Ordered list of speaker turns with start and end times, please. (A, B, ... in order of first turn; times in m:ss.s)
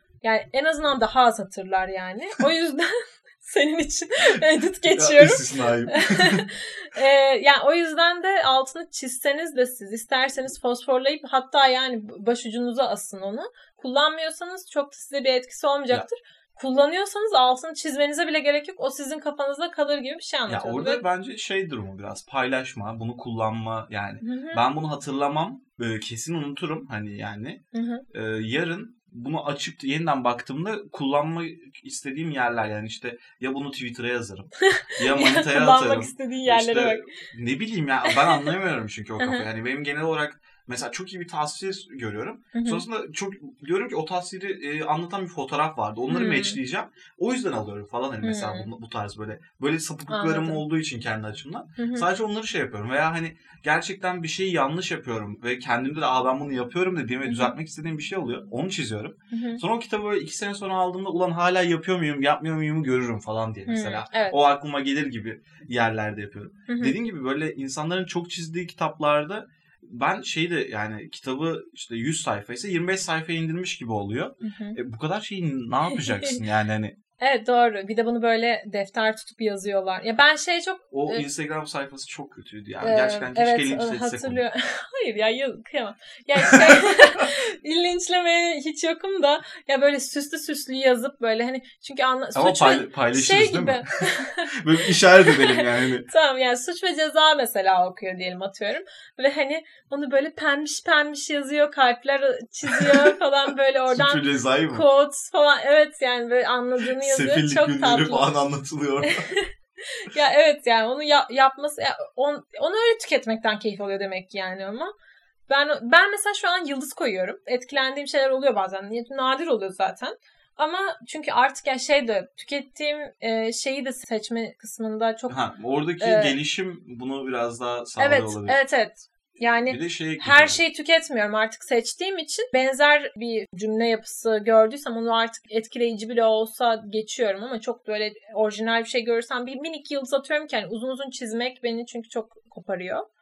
0:00.2-0:21.0 A
0:04.9-0:06.4 B
0:20.5-1:17.0 B
0:24.2-0:24.6 A
0:27.7-0:28.0 A
0:34.6-0:37.0 A
0:38.0-0:38.5 A
0:39.2-0:39.4 A
0:42.5-0:42.8 A
0:46.1-0:46.6 A
0:48.2-0:48.7 A
0:50.1-0:50.6 A
0:51.8-0:52.1 A
0:57.2-0:57.5 A
0:59.3-0:59.6 A
1:03.7-1:04.4 A
1:06.7-1:07.0 A
1:14.4-1:14.8 A
1:15.9-1:16.4 A
1:17.2-1:21.2 A
1:20.9-1:24.4 B
1:22.8-1:48.3 A
1:26.4-1:26.6 B
1:32.3-1:33.8 B
1:34.5-1:36.1 B
1:42.7-1:43.0 B
1:43.9-1:44.8 B
1:47.0-1:49.3 B
1:49.0-1:54.9 A
1:55.5-2:05.4 A
2:05.3-2:08.6 B
2:06.0-2:06.4 A
2:08.0-2:23.0 A
2:09.6-2:10.6 B